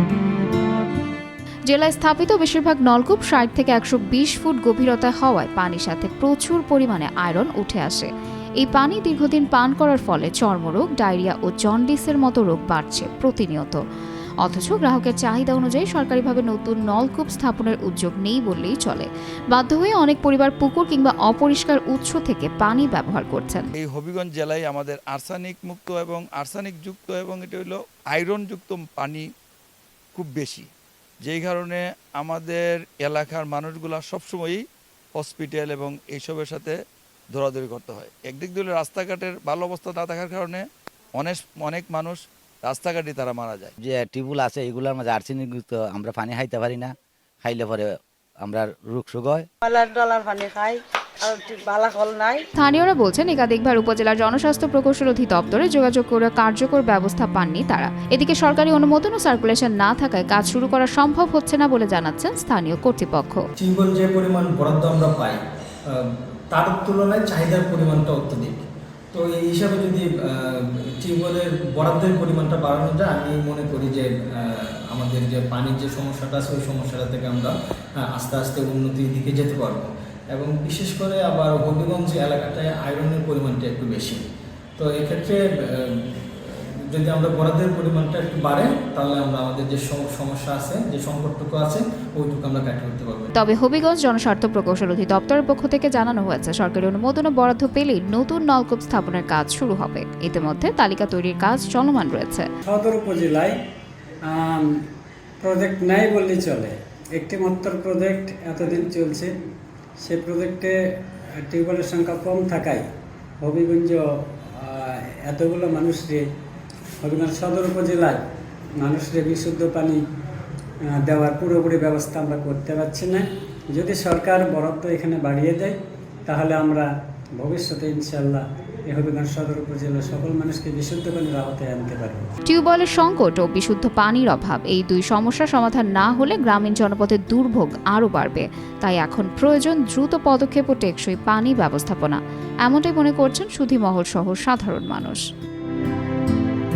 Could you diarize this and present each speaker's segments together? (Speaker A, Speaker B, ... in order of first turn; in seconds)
Speaker A: 1.7-13.8, 14.4-23.7, 52.6-63.4, 93.3-102.5, 132.5-145.2
Speaker B: 23.8-29.2, 30.1-30.7, 31.2-34.6, 35.2-36.8, 37.3-40.6, 41.2-43.7
Speaker C: 43.8-49.5
Speaker D: 49.6-52.5
Speaker E: 63.6-84.2, 84.8-93.3
Speaker F: 102.7-103.6, 104.3-104.8, 105.4-109.3, 110.0-110.8, 111.4-112.8, 113.4-116.3, 117.0-118.2, 118.8-120.0, 120.8-132.3